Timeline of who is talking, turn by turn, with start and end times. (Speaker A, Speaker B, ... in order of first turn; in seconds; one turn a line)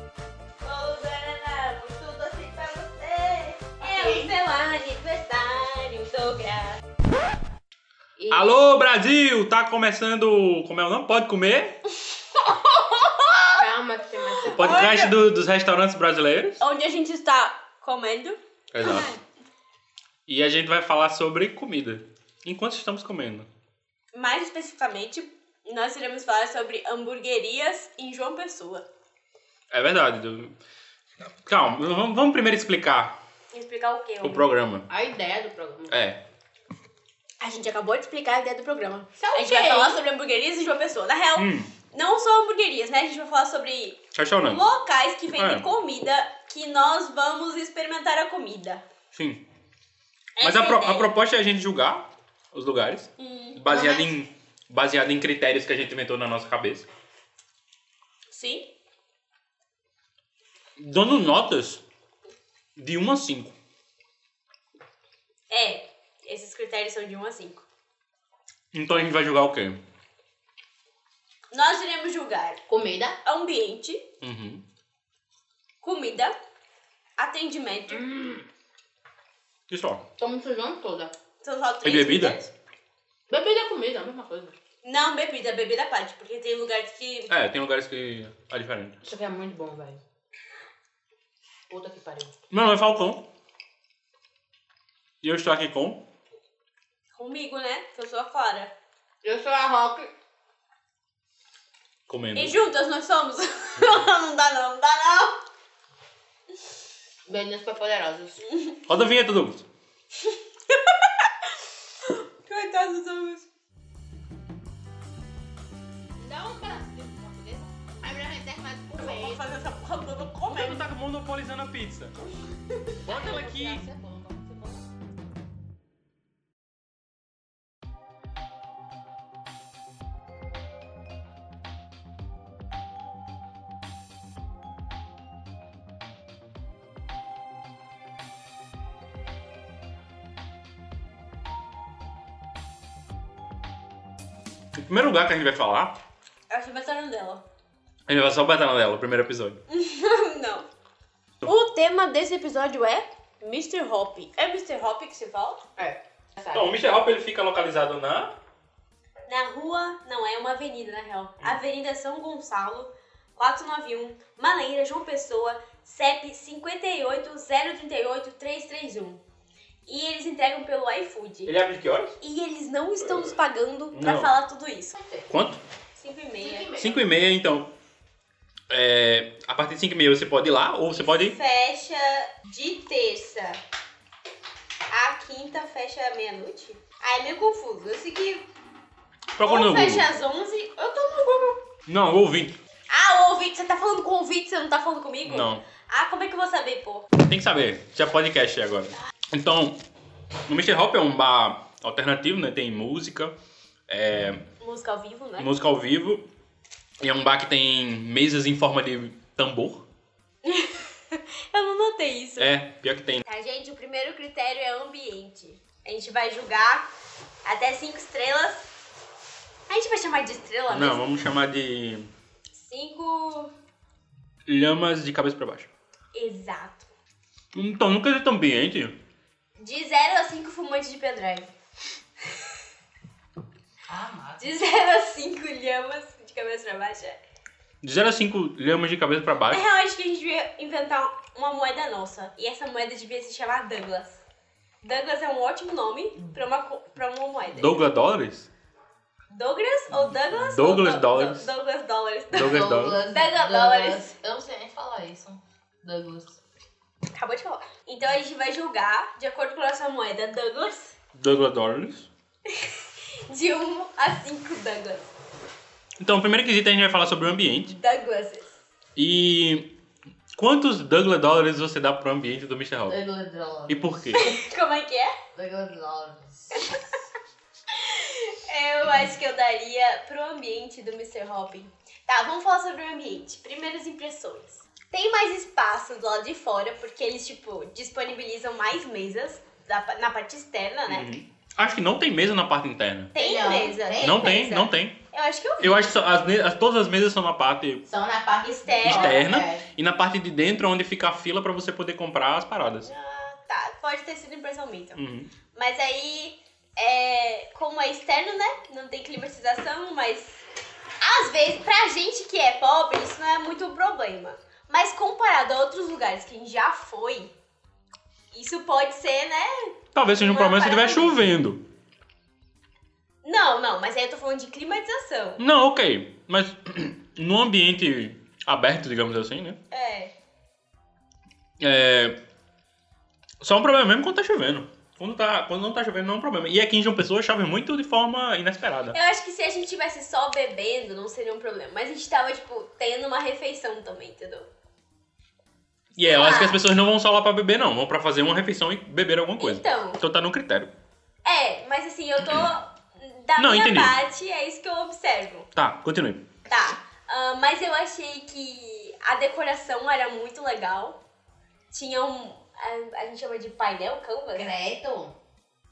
Speaker A: 0.6-6.8
Speaker B: 3.8-4.3
Speaker B: 8.2-8.6
Speaker C: 8.3-11.8
Speaker A: 12.4-13.6
Speaker B: 13.6-14.9
Speaker A: 14.4-15.1
Speaker C: 14.4-16.6
Speaker A: 16.6-19.2
Speaker C: 18.7-19.1
Speaker C: 20.3-23.5
Speaker A: 24.1-28.8
Speaker C: 29.7-30.6
Speaker C: 31.4-33.1
Speaker A: 33.5-34.5
Speaker C: 34.2-34.9
Speaker B: 34.9-35.9
Speaker C: 35.9-36.2
Speaker A: 37.4-48.8
Speaker B: 39.2-40.0
Speaker C: 41.4-41.7
Speaker C: 44.1-44.6
Speaker C: 45.3-45.6
Speaker C: 49.1-49.4
Speaker A: 50.4-51.1
Speaker C: 50.4-56.9
Speaker A: 53.2-53.9
Speaker B: 53.7-54.0
Speaker A: 58.3-58.6
Speaker C: 60.8-61.8
Speaker C: 62.8-63.5
Speaker A: 65.5-67.6
Speaker C: 68.7-69.8
Speaker A: 71.5-72.6
Speaker B: 72.7-73.2
Speaker A: 73.2-74.0
Speaker C: 74.2-74.6
Speaker A: 75.8-76.3
Speaker A: 77.2-78.1
Speaker B: 78.0-78.4
Speaker C: 79.7-80.0
Speaker B: 80.2-81.1
Speaker A: 81.4-82.5
Speaker C: 81.8-82.4
Speaker B: 83.3-84.5
Speaker A: 84.8-87.3
Speaker C: 87.3-89.0
Speaker B: 89.0-90.0
Speaker B: 91.7-92.3
Speaker C: 92.5-93.2
Speaker C: 95.2-96.0
Speaker A: 97.1-98.7
Speaker B: 99.2-100.1
Speaker C: 102.1-102.6
Speaker A: 102.3-105.4
Speaker B: 107.2-108.4
Speaker A: 108.5-108.8
Speaker C: 108.9-109.6
Speaker A: 110.2-111.3
Speaker A: 112.0-113.5
Speaker B: 116.2-119.4
Speaker A: 119.0-120.8
Speaker C: 120.5-122.1
Speaker B: 123.0-124.8
Speaker C: 123.0-123.8
Speaker C: 144.7-145.9
Speaker A: 146.5-147.4
Speaker C: 148.1-149.6
Speaker A: 149.7-150.7
Speaker A: 151.4-155.6
Speaker B: 155.8-156.8
Speaker C: 156.5-158.3
Speaker A: 159.3-169.2
Speaker A: 169.8-171.5
Speaker C: 171.4-172.2
Speaker A: 172.2-175.0
Speaker C: 173.0-173.3
Speaker C: 173.9-174.3
Speaker B: 175.0-175.3
Speaker C: 175.3-175.6
Speaker A: 176.0-176.7
Speaker B: 176.4-177.1
Speaker C: 176.8-177.7
Speaker C: 178.7-181.3
Speaker A: 180.9-183.6
Speaker A: 184.9-188.5
Speaker C: 189.3-190.1
Speaker A: 189.4-191.6
Speaker C: 191.9-192.6
Speaker A: 192.9-197.1
Speaker C: 195.2-195.6
Speaker C: 197.2-199.8
Speaker C: 200.5-203.3
Speaker C: 203.9-204.4
Speaker A: 204.6-205.5
Speaker C: 205.4-206.2
Speaker C: 207.0-209.8
Speaker A: 210.4-212.5
Speaker C: 212.4-213.2
Speaker A: 213.2-216.9
Speaker A: 217.4-218.7
Speaker A: 219.7-221.0
Speaker C: 220.7-222.1
Speaker A: 222.5-223.5
Speaker C: 224.5-225.7
Speaker A: 226.1-226.9
Speaker C: 227.5-228.9
Speaker A: 229.6-231.5
Speaker B: 233.9-234.5
Speaker A: 234.4-237.2
Speaker C: 237.8-239.6
Speaker A: 239.5-244.2
Speaker A: 244.8-247.9
Speaker C: 247.5-248.5
Speaker A: 249.3-254.1
Speaker C: 250.0-251.5
Speaker C: 252.3-253.0
Speaker B: 252.3-256.4
Speaker A: 257.1-260.9
Speaker C: 261.1-262.1
Speaker A: 263.3-265.1
Speaker C: 266.0-267.7
Speaker A: 267.7-268.5
Speaker C: 268.9-269.7
Speaker C: 270.4-273.0
Speaker B: 272.9-274.4
Speaker C: 273.7-274.3
Speaker A: 274.1-275.1
Speaker B: 275.3-276.8
Speaker A: 277.7-291.1
Speaker C: 290.9-293.1
Speaker B: 293.1-294.4
Speaker A: 293.1-296.0
Speaker C: 294.0-295.0
Speaker C: 295.6-297.8
Speaker B: 297.9-299.6
Speaker A: 298.4-299.2
Speaker C: 298.8-302.9
Speaker A: 302.8-305.0
Speaker C: 304.9-305.3
Speaker A: 305.5-310.4
Speaker A: 311.0-317.3
Speaker A: 318.3-321.3
Speaker C: 319.9-321.6
Speaker A: 323.2-325.4
Speaker C: 325.4-329.6
Speaker A: 329.7-330.1
Speaker C: 331.6-332.1
Speaker C: 333.4-339.0
Speaker A: 338.9-344.5
Speaker A: 345.9-346.6
Speaker C: 345.9-350.7
Speaker A: 349.4-350.0
Speaker A: 351.2-355.5
Speaker C: 353.4-353.9
Speaker C: 355.5-356.2
Speaker A: 356.5-361.0
Speaker A: 361.7-364.5
Speaker B: 364.3-365.1